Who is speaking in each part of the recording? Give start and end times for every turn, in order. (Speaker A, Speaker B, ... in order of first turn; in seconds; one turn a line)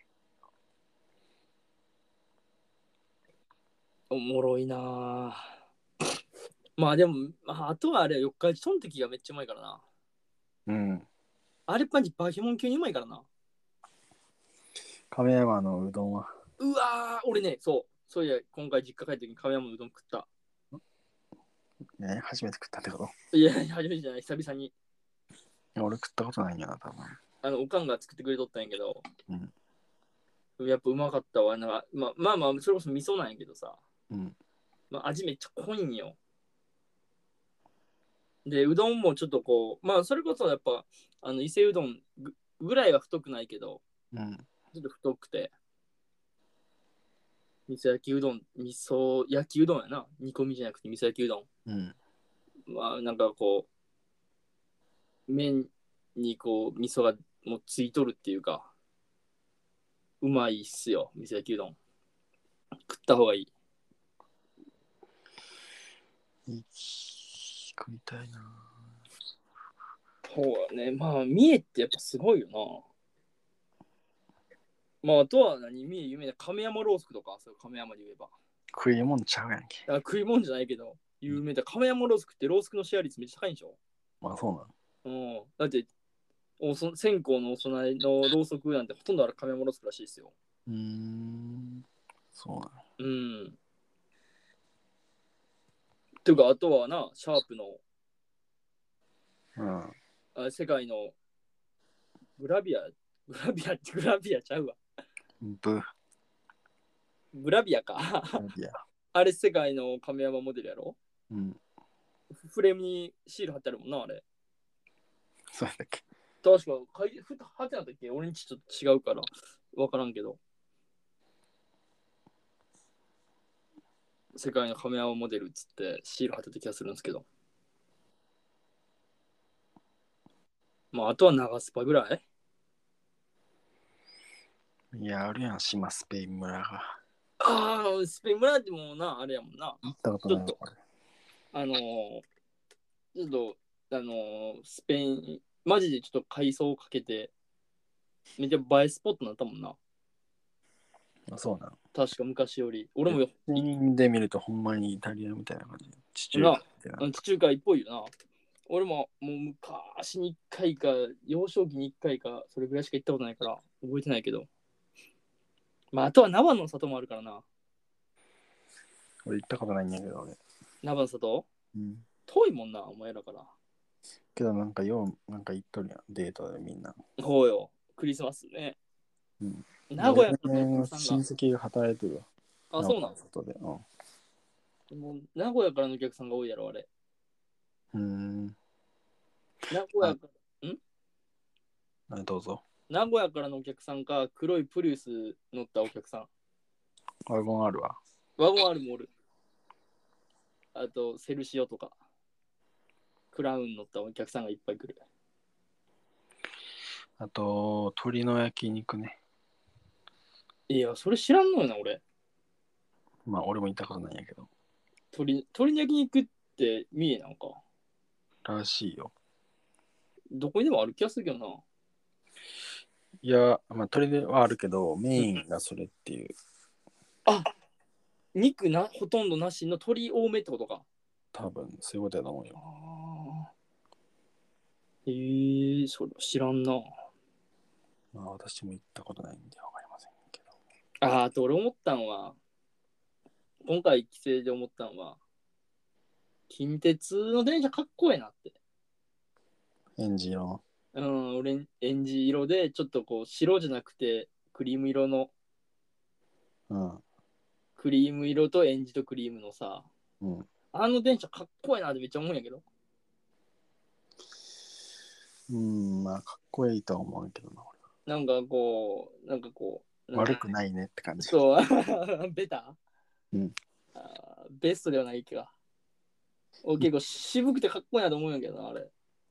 Speaker A: 4.1-5.5
Speaker A: 6.8-9.8
Speaker B: 10.7-11.1
Speaker A: 11.7-13.3
Speaker B: 15.1-16.3
Speaker A: 16.6-20.3
Speaker B: 22.0-23.1
Speaker A: 23.3-24.7
Speaker B: 25.8-27.2
Speaker A: 27.4-29.0
Speaker A: 30.6-33.8
Speaker B: 34.1-34.4
Speaker A: 34.9-36.2
Speaker A: 38.5-43.8
Speaker B: 44.1-44.5
Speaker A: 44.7-45.5
Speaker A: 47.7-51.5
Speaker B: 51.7-52.0
Speaker A: 52.7-53.7
Speaker A: 55.3-58.7
Speaker A: 60.2-61.8
Speaker A: 62.9-63.5
Speaker B: 66.5-68.7
Speaker A: 70.3-72.8
Speaker A: 75.0-78.3
Speaker B: 78.7-79.8
Speaker A: 79.9-83.8
Speaker B: 84.2-84.7
Speaker A: 85.0-85.9
Speaker A: 86.6-90.3
Speaker B: 90.7-92.8
Speaker A: 93.0-93.6
Speaker A: 96.2-97.8
Speaker B: 99.6-100.0
Speaker A: 100.3-101.2
Speaker A: 102.4-104.8
Speaker B: 105.4-105.8
Speaker A: 107.3-108.5
Speaker B: 108.4-108.8
Speaker A: 109.1-111.0
Speaker B: 111.3-111.6
Speaker A: 112.4-114.2
Speaker B: 115.5-116.0
Speaker A: 116.4-120.4
Speaker A: 124.3-127.2
Speaker A: 130.9-132.2
Speaker B: 134.9-137.0
Speaker A: 137.4-140.6
Speaker B: 139.8-140.8
Speaker A: 141.5-142.2
Speaker A: 143.2-147.3
Speaker A: 148.4-149.8
Speaker B: 151.3-151.8
Speaker A: 151.9-153.6
Speaker B: 153.1-157.1
Speaker A: 156.3-158.1
Speaker A: 158.7-164.5
Speaker A: 165.9-167.4
Speaker B: 169.2-170.4
Speaker A: 170.8-171.5
Speaker B: 171.7-172.1
Speaker A: 172.3-173.5
Speaker B: 174.3-177.0
Speaker A: 177.2-178.8
Speaker B: 179.4-182.3
Speaker A: 179.9-181.2
Speaker A: 182.7-183.2
Speaker B: 182.8-183.8
Speaker A: 184.9-186.9
Speaker B: 187.9-188.6
Speaker A: 189.7-190.8
Speaker B: 192.1-192.6
Speaker A: 192.9-196.3
Speaker B: 197.3-198.0
Speaker A: 198.4-199.1
Speaker A: 200.8-201.9
Speaker A: 203.3-205.0
Speaker B: 207.2-209.2
Speaker A: 210.7-212.0
Speaker B: 213.3-214.5
Speaker A: 215.1-217.6
Speaker B: 218.4-219.1
Speaker A: 220.3-221.6
Speaker B: 223.2-226.3
Speaker A: 228.3-230.8
Speaker B: 231.3-232.6
Speaker A: 232.6-233.5
Speaker A: 235.1-236.8
Speaker B: 238.1-240.5
Speaker A: 241.0-242.4
Speaker A: 243.7-245.2
Speaker A: 246.5-248.6
Speaker B: 250.0-250.6
Speaker A: 250.9-255.3
Speaker B: 256.7-257.0
Speaker A: 257.8-259.9
Speaker B: 260.2-260.5
Speaker A: 260.7-262.6
Speaker B: 265.5-267.8
Speaker A: 268.1-270.4
Speaker B: 270.1-271.4
Speaker A: 271.3-272.8
Speaker A: 273.9-275.5
Speaker A: 276.6-278.9